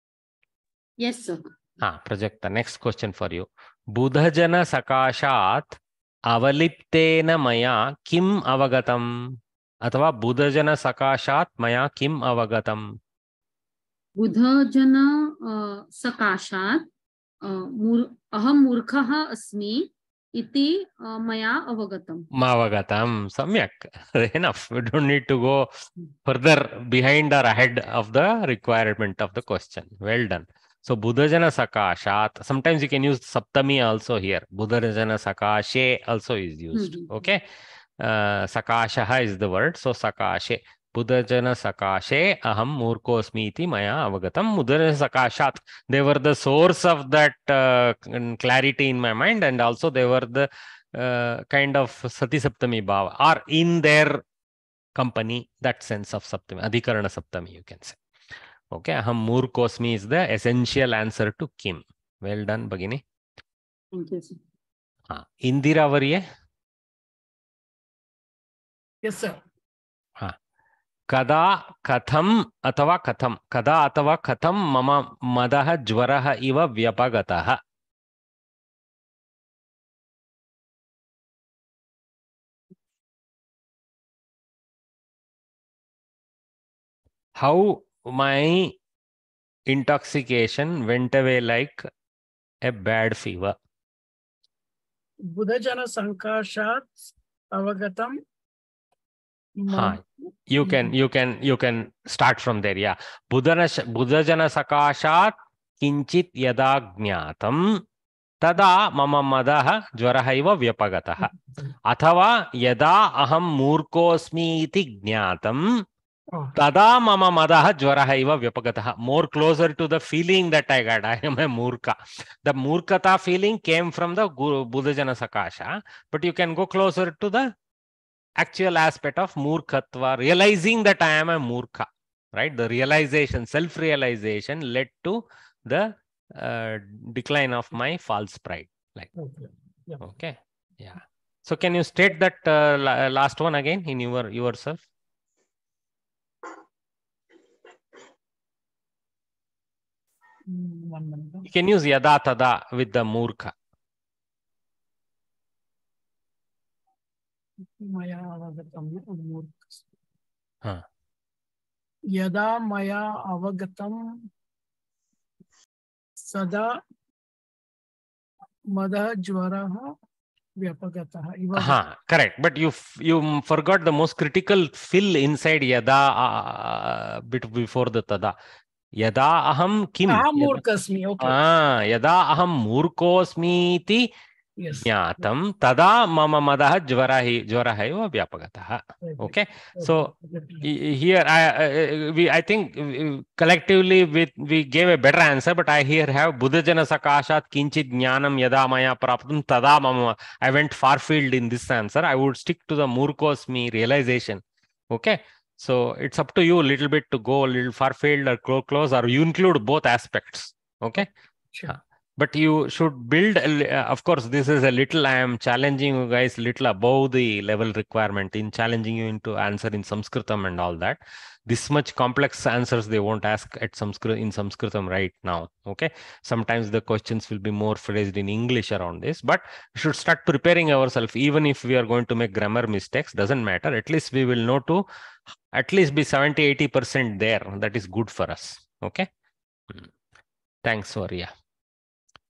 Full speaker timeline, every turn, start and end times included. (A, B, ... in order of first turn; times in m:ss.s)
0:01.0-0:01.5 A
0:01.8-0:13.0 B
0:14.2-0:16.9 A
0:17.4-0:22.2 A
0:22.3-0:25.7 B
0:26.2-0:37.4 B
0:36.8-0:37.1 A
0:38.0-0:54.2 B
0:55.0-0:58.0 B
0:58.7-1:03.0 B
1:03.9-1:04.4 A
1:05.1-1:06.2 B
1:09.0-1:09.4 C
1:11.1-1:17.6 B
1:27.4-1:28.7 B
1:29.7-1:31.9 B
1:32.6-1:33.5 B
1:35.4-1:36.9 C
1:37.6-1:38.2 C
1:39.6-1:40.0 C
1:39.7-1:40.0 B
1:40.5-1:47.8 B
1:40.6-1:40.9 C
1:48.4-1:51.3 B
1:51.8-1:55.8 B
1:56.5-2:07.5 B
2:08.4-2:19.1 B
2:19.2-2:20.0 C
2:20.0-2:24.8 B
2:30.5-2:31.5 C
2:31.5-2:33.5 B
2:37.8-2:39.7 C
2:42.2-2:44.0 C
2:46.3-2:46.7 C
2:48.8-2:49.9 C
2:50.6-2:51.8 C
2:51.6-2:58.3 B
2:59.0-3:00.6 B
3:00.1-3:01.4 C
3:01.2-3:04.1 B
3:04.6-3:04.8 C
3:04.8-3:10.1 B
3:09.0-3:10.7 C
3:10.6-3:31.1 B
3:31.7-3:54.8 B
3:55.5-3:59.1 B
4:00.6-4:01.3 B